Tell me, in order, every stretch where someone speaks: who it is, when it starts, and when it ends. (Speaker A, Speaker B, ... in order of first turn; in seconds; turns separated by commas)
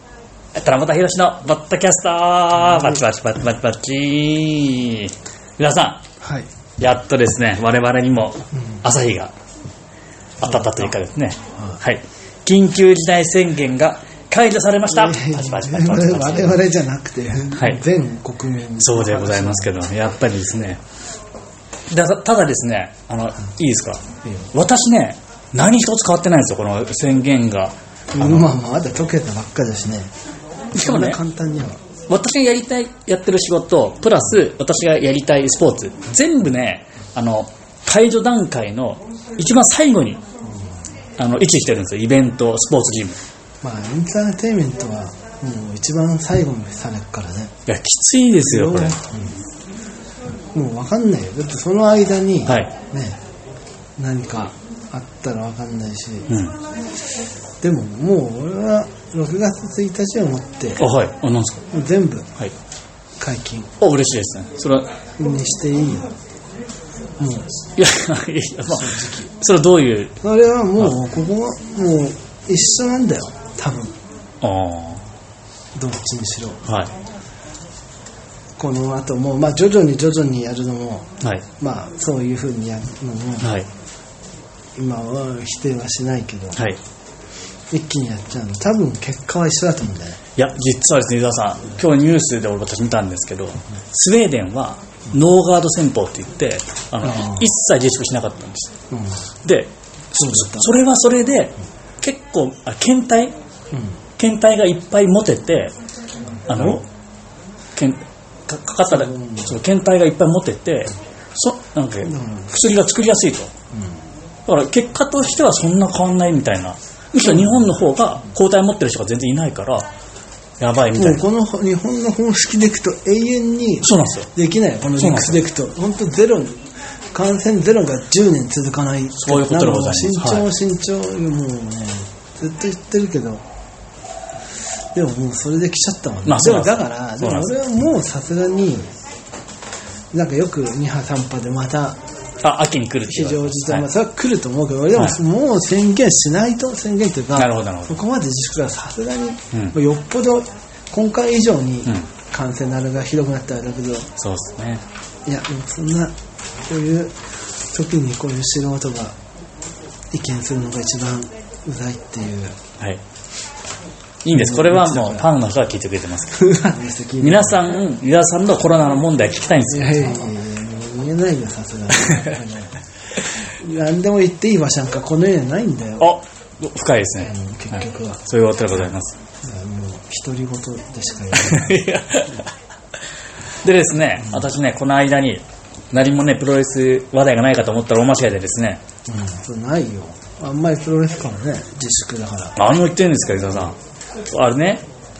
Speaker A: 0.5-6.0, Speaker B: 2.5-3.0, Speaker B: 6.2-6.5, Speaker A: 6.8-9.3, Speaker A: 10.4-16.6, Speaker B: 10.4-10.9, Speaker B: 14.9-19.8, Speaker A: 17.5-17.8, Speaker A: 18.8-20.8, Speaker A: 21.9-28.4, Speaker B: 28.1-30.1, Speaker A: 30.7-31.2, Speaker B: 30.8-31.8, Speaker A: 32.1-40.2, Speaker A: 41.2-43.2, Speaker B: 43.6-47.5, Speaker A: 47.7-49.0, Speaker B: 48.4-49.4, Speaker B: 50.5-53.2, Speaker A: 52.5-52.7, Speaker B: 54.0-56.3, Speaker A: 56.3-56.5, Speaker B: 57.6-60.8, Speaker A: 60.8-61.6, Speaker B: 61.7-62.3, Speaker B: 63.2-63.7, Speaker A: 63.8-64.9, Speaker B: 65.2-66.1, Speaker B: 67.2-67.5, Speaker A: 67.8-70.2, Speaker B: 68.7-69.3, Speaker B: 70.2-74.0, Speaker A: 74.4-75.0, Speaker B: 75.8-76.6, Speaker A: 76.6-76.9, Speaker B: 78.6-83.5, Speaker A: 83.4-83.7, Speaker B: 84.8-86.6, Speaker B: 87.7-90.2, Speaker A: 90.4-98.8, Speaker B: 97.0-97.5, Speaker B: 98.9-99.2, Speaker A: 99.4-103.3, Speaker B: 100.2-100.7, Speaker B: 103.7-104.0, Speaker A: 104.2-105.8, Speaker A: 106.5-106.9, Speaker B: 106.5-106.8, Speaker A: 107.8-113.5, Speaker B: 108.9-109.5, Speaker B: 112.0-112.5, Speaker B: 113.7-114.0, Speaker A: 114.5-119.9, Speaker A: 120.6-121.2, Speaker B: 121.0-133.4, Speaker A: 123.8-124.3, Speaker A: 125.0-125.4, Speaker A: 129.2-130.5, Speaker B: 134.9-138.9, Speaker A: 136.2-137.5, Speaker B: 140.1-142.0, Speaker A: 142.4-143.9, Speaker B: 143.1-154.1, Speaker A: 147.3-148.0, Speaker A: 154.2-154.8, Speaker B: 155.2-156.1, Speaker B: 156.7-157.2, Speaker B: 157.7-159.2, Speaker B: 160.1-162.6, Speaker A: 164.2-166.5, Speaker B: 164.3-165.3, Speaker B: 166.3-167.7, Speaker A: 167.2-170.3, Speaker B: 169.7-176.1, Speaker A: 172.0-172.3, Speaker A: 176.0-177.3, Speaker B: 177.2-178.2, Speaker A: 178.2-179.2, Speaker B: 179.4-181.8, Speaker A: 181.3-182.5, Speaker A: 183.6-188.8, Speaker B: 189.1-192.6, Speaker A: 192.6-194.8